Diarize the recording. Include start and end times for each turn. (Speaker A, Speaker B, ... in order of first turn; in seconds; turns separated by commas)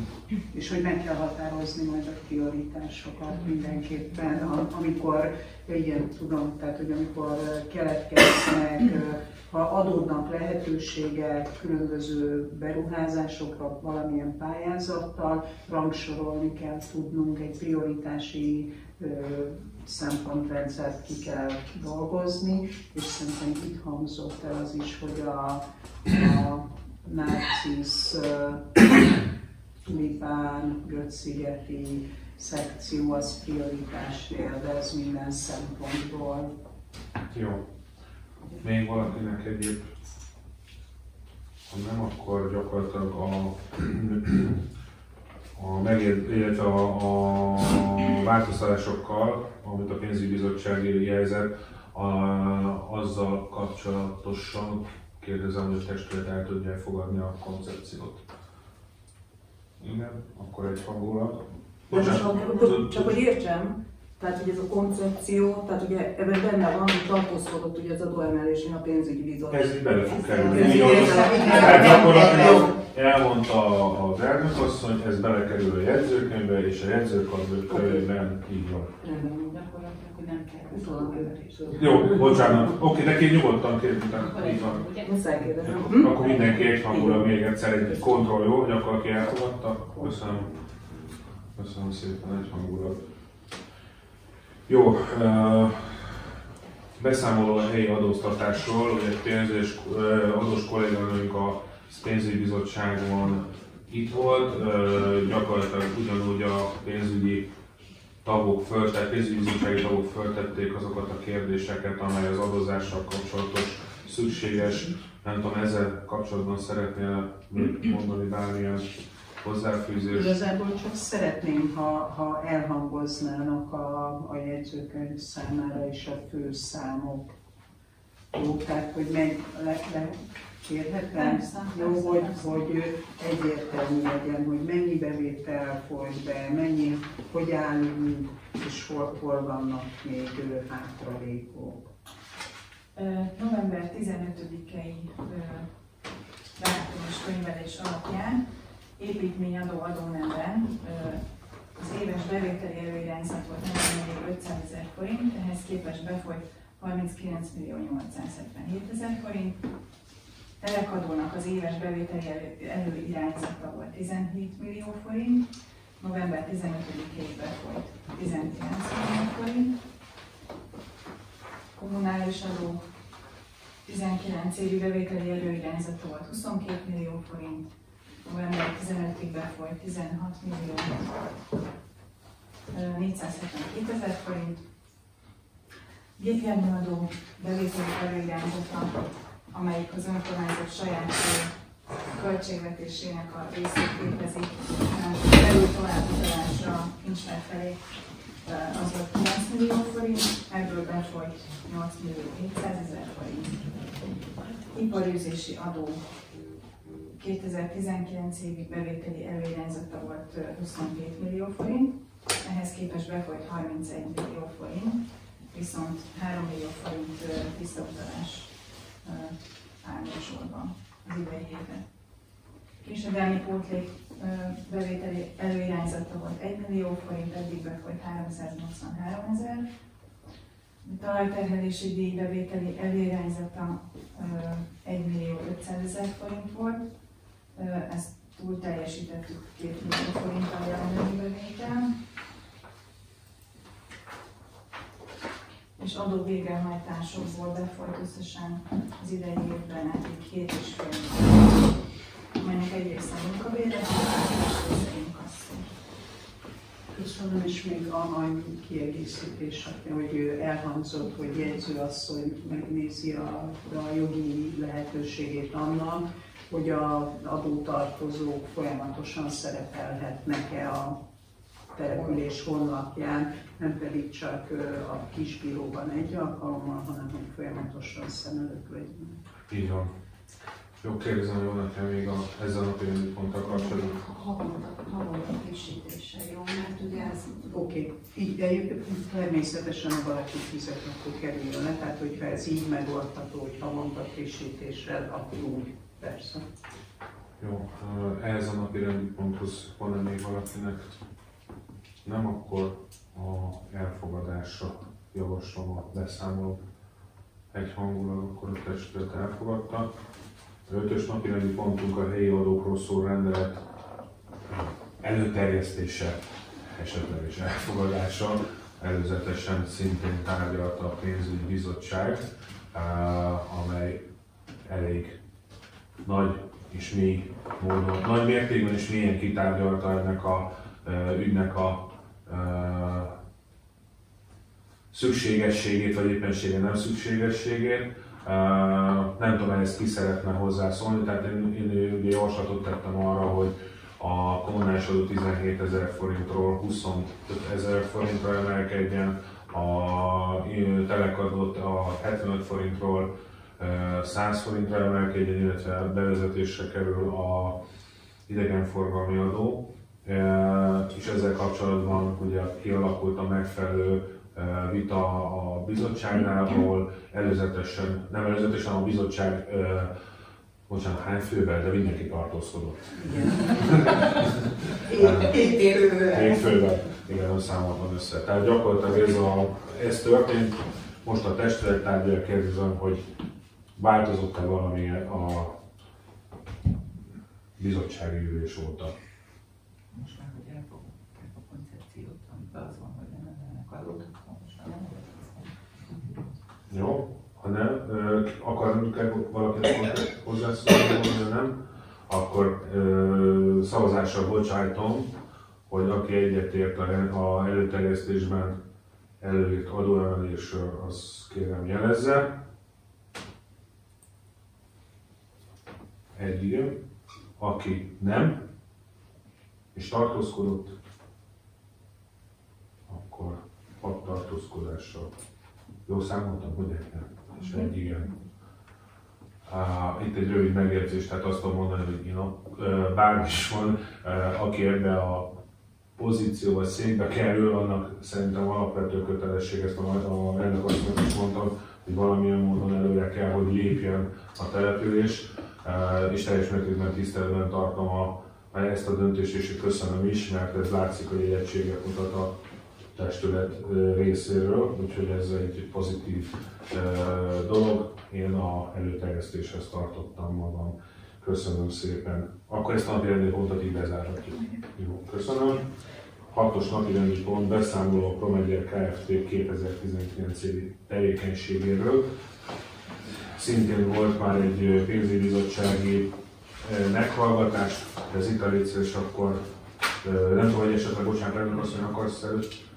Speaker A: 0.5-29.0, Speaker A: 29.9-36.5, Speaker B: 37.3-37.6, Speaker B: 38.6-39.9, Speaker B: 41.7-44.6, Speaker B: 45.6-58.2, Speaker B: 59.8-63.2, Speaker C: 61.9-72.6, Speaker B: 69.5-78.9, Speaker A: 70.5-72.7, Speaker D: 70.9-72.5, Speaker C: 77.7-78.0, Speaker C: 79.0-79.6, Speaker D: 79.5-81.8, Speaker C: 80.7-82.5, Speaker B: 81.8-84.9, Speaker C: 85.0-87.3, Speaker B: 85.6-90.5, Speaker B: 91.6-93.0, Speaker B: 94.7-96.2, Speaker B: 97.0-107.5, Speaker B: 108.2-118.8, Speaker B: 119.4-120.4, Speaker A: 120.1-127.3, Speaker A: 128.3-141.9, Speaker D: 131.1-132.7, Speaker D: 142.9-145.8, Speaker D: 146.6-159.6, Speaker D: 160.6-169.8, Speaker D: 171.8-172.8, Speaker D: 173.8-177.7, Speaker D: 178.2-181.3, Speaker D: 182.7-184.6, Speaker D: 186.2-191.5, Speaker D: 192.1-203.9, Speaker D: 204.7-206.0, Speaker D: 207.1-221.9, Speaker D: 222.8-229.7, Speaker D: 230.8-236.9, Speaker D: 237.5-242.0, Speaker D: 245.8-255.7, Speaker A: 256.9-271.0, Speaker A: 271.7-279.2, Speaker B: 279.5-279.9, Speaker B: 280.8-284.0, Speaker D: 283.9-287.5, Speaker A: 287.5-296.4, Speaker B: 297.4-301.0, Speaker B: 302.1-306.6, Speaker B: 307.5-309.9, Speaker B: 310.7-313.6, Speaker B: 314.5-324.0, Speaker B: 324.6-325.2, Speaker B: 326.0-333.1, Speaker B: 334.9-357.6, Speaker B: 358.3-369.9, Speaker B: 370.7-375.6, Speaker A: 373.0-374.0, Speaker A: 374.8-376.4, Speaker B: 376.1-383.1, Speaker B: 383.8-385.6, Speaker B: 387.6-388.9, Speaker E: 389.9-396.2, Speaker B: 396.7-401.6, Speaker B: 402.1-405.1, Speaker B: 405.7-408.6, Speaker B: 409.2-412.3, Speaker B: 416.1-416.8, Speaker B: 417.4-418.4, Speaker B: 419.7-420.8, Speaker B: 422.9-425.1, Speaker B: 425.9-428.1, Speaker B: 429.5-435.4, Speaker B: 436.0-452.3, Speaker B: 452.9-465.7, Speaker B: 466.3-472.1, Speaker B: 473.3-476.1, Speaker B: 476.6-479.4, Speaker B: 480.0-482.5